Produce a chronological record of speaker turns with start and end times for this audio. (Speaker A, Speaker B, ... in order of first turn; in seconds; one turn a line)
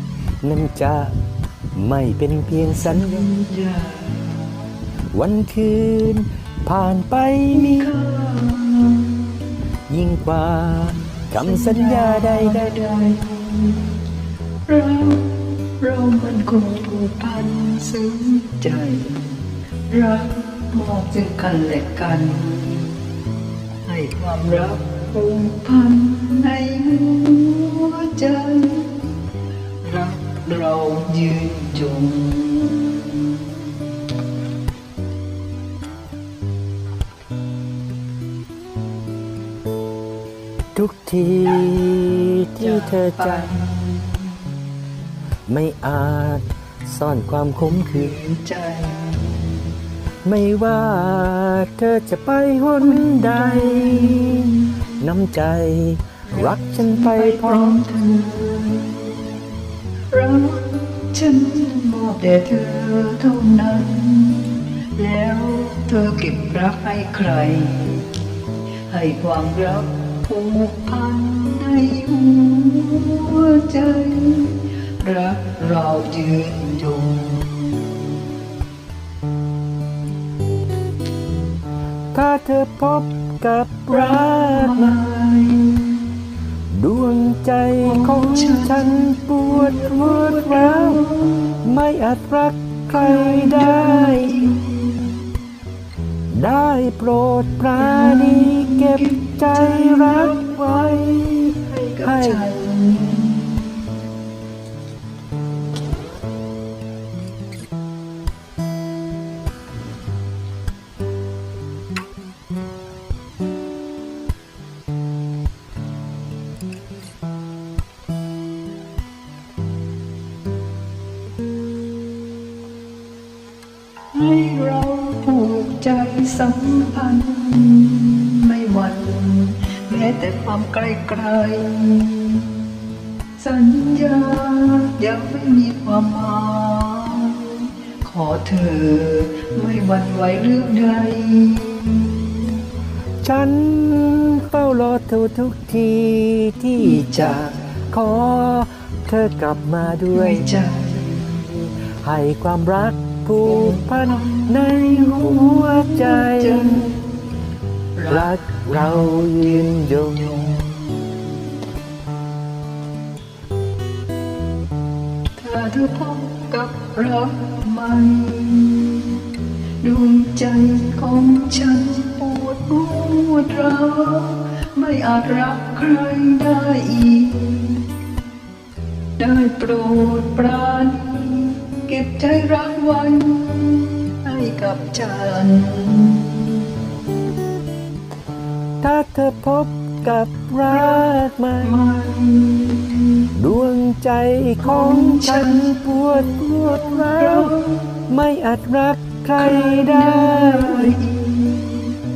Speaker A: 0.4-1.1
Speaker A: 1.7-3.2
Speaker B: 2.8-4.6
Speaker A: 5.1-7.9
Speaker B: 7.5-9.3
Speaker A: 9.9-12.7
Speaker B: 11.3-14.0
Speaker B: 14.7-23.0
Speaker B: 23.9-29.2
Speaker B: 29.8-33.6
Speaker A: 40.7-43.5
Speaker B: 42.6-44.3
Speaker A: 45.5-48.2
Speaker B: 48.0-49.6
Speaker A: 50.2-57.8
Speaker B: 52.8-54.9
Speaker B: 56.3-59.3
Speaker B: 60.1-68.2
Speaker B: 68.9-78.2
Speaker A: 82.1-85.0
Speaker B: 83.9-86.0
Speaker A: 86.7-91.0
Speaker B: 87.8-91.6
Speaker A: 91.6-94.4
Speaker B: 92.9-95.3
Speaker A: 96.3-102.4
Speaker B: 97.8-103.8
Speaker B: 124.1-132.5
Speaker B: 133.4-142.4
Speaker A: 143.2-147.3
Speaker B: 146.8-147.6
Speaker A: 147.9-150.6
Speaker B: 150.1-151.4
Speaker A: 151.3-156.9
Speaker B: 153.4-157.1
Speaker B: 158.0-160.9
Speaker A: 158.1-160.3
Speaker B: 165.4-169.2
Speaker B: 169.8-177.8
Speaker B: 179.2-186.7
Speaker A: 188.8-191.8
Speaker B: 190.7-191.1
Speaker B: 191.6-193.3
Speaker A: 193.4-197.6
Speaker B: 194.6-198.0
Speaker A: 198.1-200.9
Speaker B: 199.4-202.0